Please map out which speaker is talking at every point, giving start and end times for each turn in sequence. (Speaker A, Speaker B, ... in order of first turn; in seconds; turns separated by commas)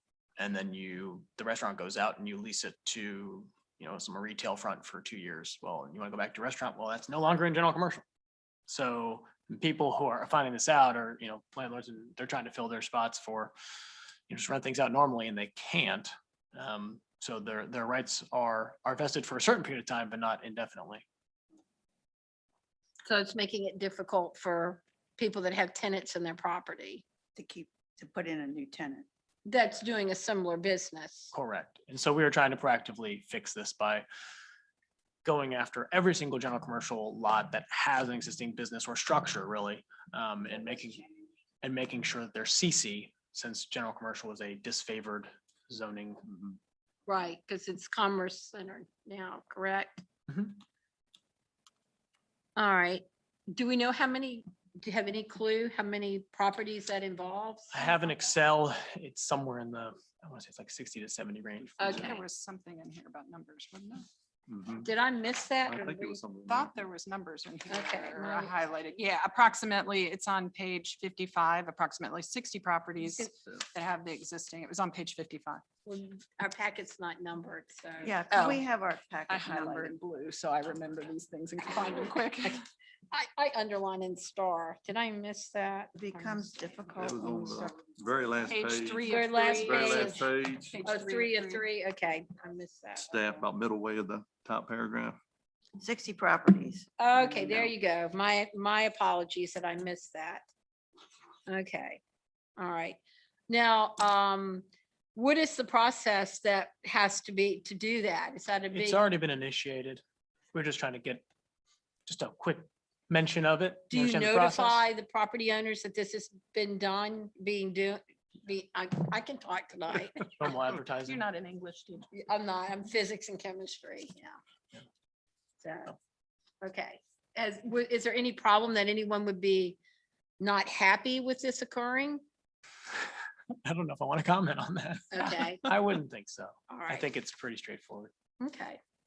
Speaker A: 0.4-8.0, Speaker A: 8.7-13.5, Speaker A: 14.3-21.0, Speaker B: 23.1-27.0, Speaker C: 27.3-29.1, Speaker B: 29.4-31.3, Speaker A: 31.3-34.0, Speaker A: 35.2-41.0, Speaker A: 41.6-46.2, Speaker B: 47.1-50.0, Speaker A: 50.3-50.5, Speaker B: 52.5-57.8, Speaker A: 57.7-62.2, Speaker D: 61.8-64.0, Speaker B: 61.8-62.2, Speaker E: 64.5-64.9, Speaker B: 64.8-66.2, Speaker E: 65.7-66.7, Speaker D: 66.4-75.6, Speaker B: 67.7-68.5, Speaker B: 75.8-78.6, Speaker C: 78.0-80.0, Speaker D: 79.3-82.6, Speaker B: 83.1-86.4, Speaker C: 86.0-87.8, Speaker E: 87.0-88.9, Speaker D: 88.4-91.6, Speaker B: 89.0-90.3, Speaker E: 89.6-90.7, Speaker B: 90.8-93.1, Speaker E: 93.0-95.2, Speaker C: 95.8-96.9, Speaker B: 97.0-100.5, Speaker B: 101.5-102.0, Speaker B: 102.6-109.0, Speaker A: 108.7-110.0, Speaker A: 110.5-111.2, Speaker A: 112.0-114.8, Speaker B: 113.9-120.2, Speaker A: 120.3-121.2, Speaker D: 121.0-122.1, Speaker B: 122.1-124.3, Speaker B: 125.6-125.9, Speaker B: 126.6-129.8, Speaker B: 130.4-132.2, Speaker A: 133.6-138.1, Speaker B: 135.1-135.6, Speaker B: 136.7-137.1, Speaker B: 138.4-138.8